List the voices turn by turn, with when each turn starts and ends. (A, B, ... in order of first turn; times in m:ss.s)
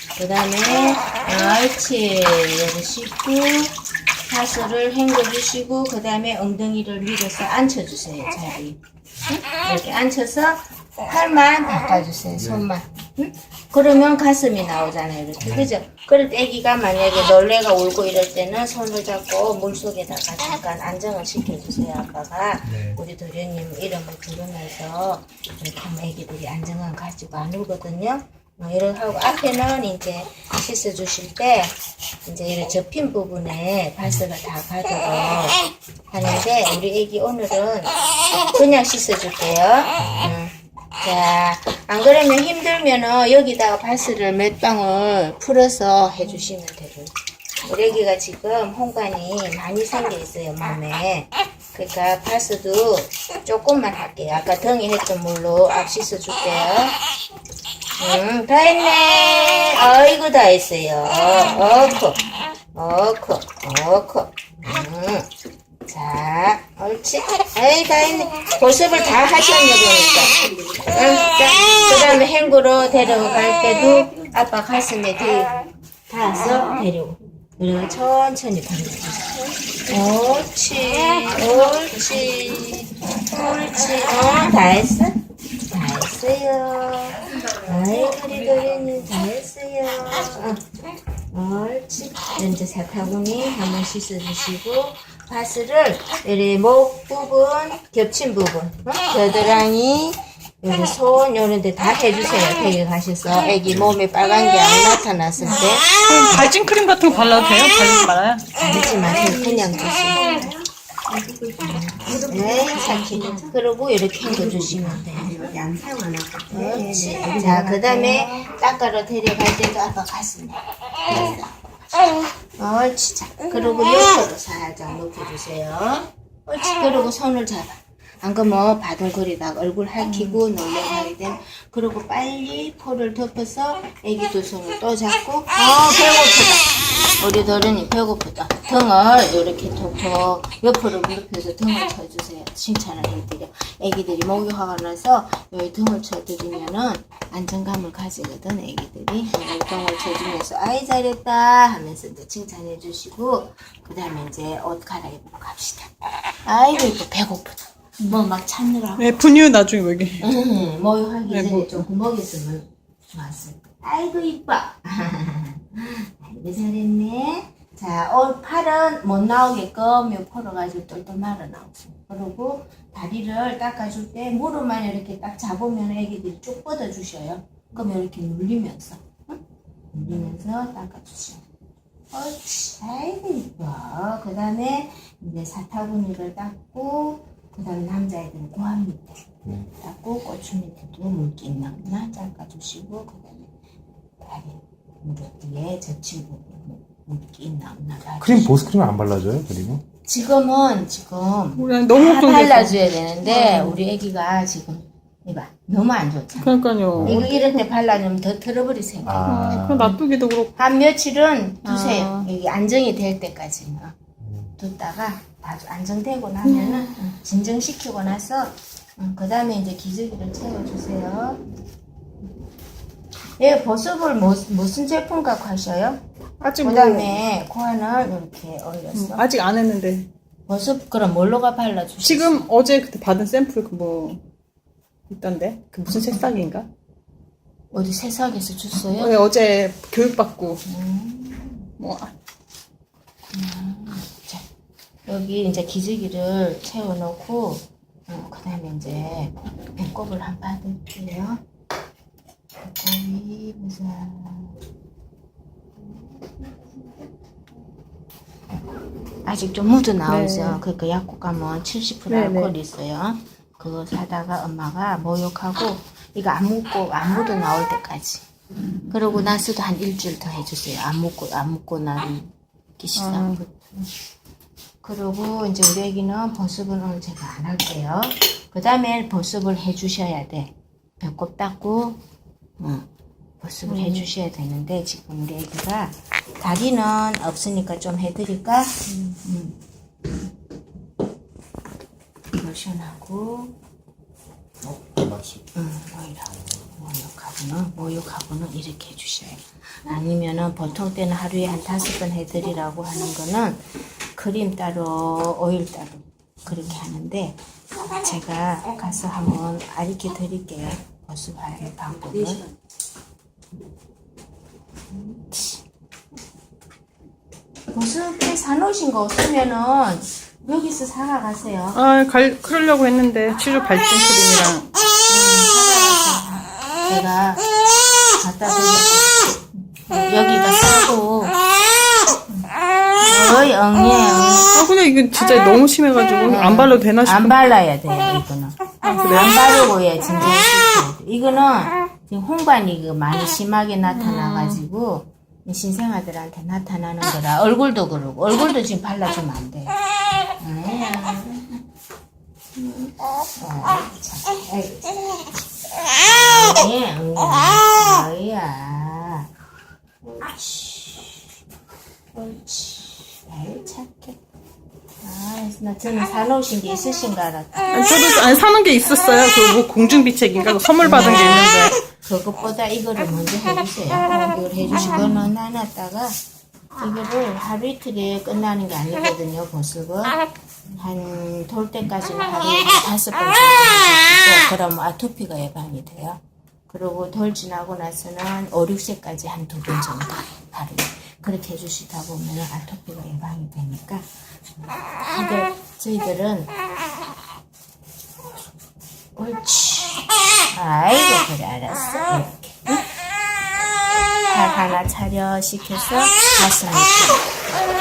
0:00.2-0:57.0 A
0:12.4-0:12.6 B
0:15.4-0:15.7 B
0:22.6-0:23.0 B
0:40.0-0:40.3 B
0:58.0-1:05.3 A
1:05.8-1:30.6 A
1:27.6-1:28.1 C
1:31.3-1:46.1 A
1:43.7-1:43.9 B
1:45.4-1:48.4 C
1:48.6-1:50.5 A
1:49.4-1:50.5 C
1:51.1-1:53.4 C
1:51.6-1:55.6 A
1:51.9-1:53.4 D
1:54.9-1:57.4 D
1:56.5-2:39.2 A
2:01.1-2:01.4 B
2:39.0-2:40.3 C
2:40.2-2:59.4 A
2:41.3-2:41.8 C
2:59.9-3:01.4 A
3:02.1-3:13.5 A
3:14.2-3:18.8 A
3:18.2-3:19.8 B
3:20.0-3:29.9 A
3:21.6-3:23.8 C
3:26.4-3:27.6 C
3:26.9-3:27.2 B
3:29.0-3:30.0 B
3:29.2-3:30.6 C
3:30.6-3:33.9 A
3:31.6-3:32.3 C
3:34.2-3:34.5 B
3:34.6-3:41.4 A
3:36.4-3:36.9 C
3:43.4-3:46.0 A
3:46.4-3:47.2 C
3:46.6-3:49.2 A
3:48.9-3:50.1 C
3:50.5-3:52.4 A
3:52.0-3:54.2 C
3:55.1-3:56.7 C
3:55.8-3:56.1 A
3:57.7-3:59.2 A
3:58.8-4:00.6 C
4:00.6-4:01.7 A
4:01.8-4:02.1 C
4:03.3-4:04.4 A
4:05.1-4:11.4 A
4:12.6-4:14.6 A
4:19.2-4:28.2 A
4:20.1-4:20.6 C
4:22.1-4:22.5 C
4:28.9-4:33.7 A
4:33.0-4:33.4 C
4:34.8-4:42.0 A
4:42.6-4:42.8 A
4:43.4-4:49.6 A
4:43.7-4:44.1 C
4:48.9-4:49.2 C
4:52.3-4:53.6 A
4:54.6-4:55.5 B
4:55.5-5:03.6 A
5:04.2-5:12.4 A
5:14.9-5:15.5 A
5:17.7-5:21.8 A
5:21.7-5:24.7 C
5:25.1-5:27.5 A
5:28.1-5:31.4 A
5:33.0-5:34.5 A
5:34.5-5:37.3 C
5:36.2-5:49.8 A
5:38.8-5:39.4 C
5:43.9-5:44.6 C
5:50.4-5:51.6 A
5:53.3-5:55.3 A
5:55.9-5:59.3 A
6:00.1-6:01.2 A
6:02.1-6:04.2 A
6:05.0-6:07.7 A
6:07.7-6:11.8 C
6:10.8-6:16.2 A
6:16.8-6:20.2 A
6:20.8-6:34.0 A
6:34.6-6:36.5 A
6:39.2-6:42.8 A
6:44.2-6:47.4 A